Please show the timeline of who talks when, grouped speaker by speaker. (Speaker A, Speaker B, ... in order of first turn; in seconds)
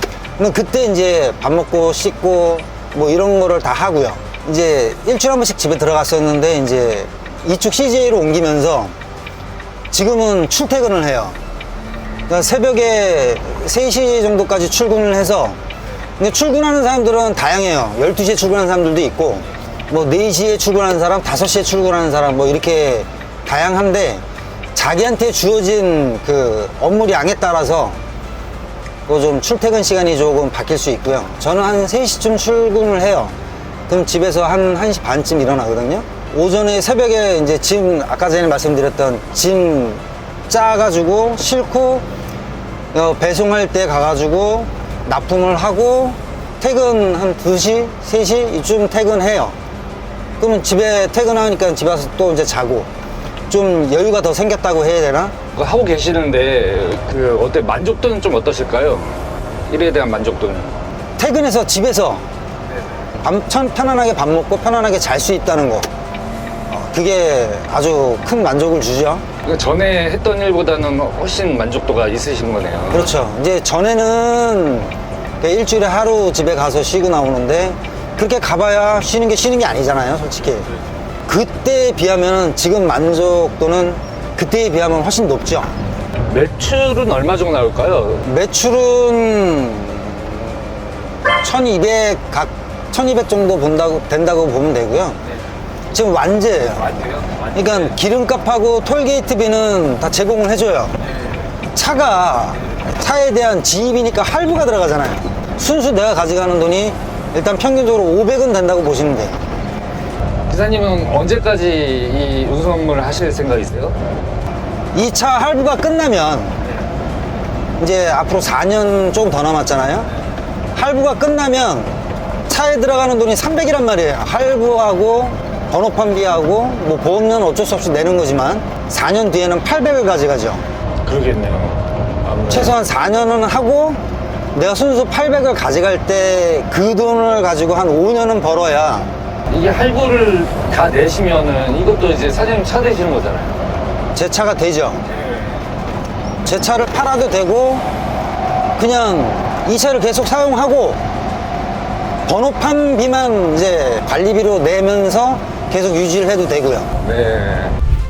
Speaker A: 0.4-8.9, 9.9-11.4, 12.3-15.6, 16.2-24.2, 24.7-28.0, 29.1-33.3, 33.9-42.0, 42.9-49.5, 50.4-52.9, 53.5-55.3, 61.2-62.3, 63.2-65.9, 66.7-69.2, 72.9-80.7, 81.3-85.7, 88.2-95.2, 95.9-96.9, 97.5-100.9, 101.7-109.4, 114.9-116.5, 117.8-120.1, 120.7-121.9, 122.5-130.6, 132.5-134.0, 134.5-139.1, 144.1-145.0, 146.4-147.8, 148.8-151.0, 152.3-156.9
Speaker B: 55.5-59.2, 59.7-60.9, 69.4-73.1, 86.3-88.3, 96.8-97.9, 110.5-114.0, 131.0-132.8, 139.5-143.6, 157.0-157.8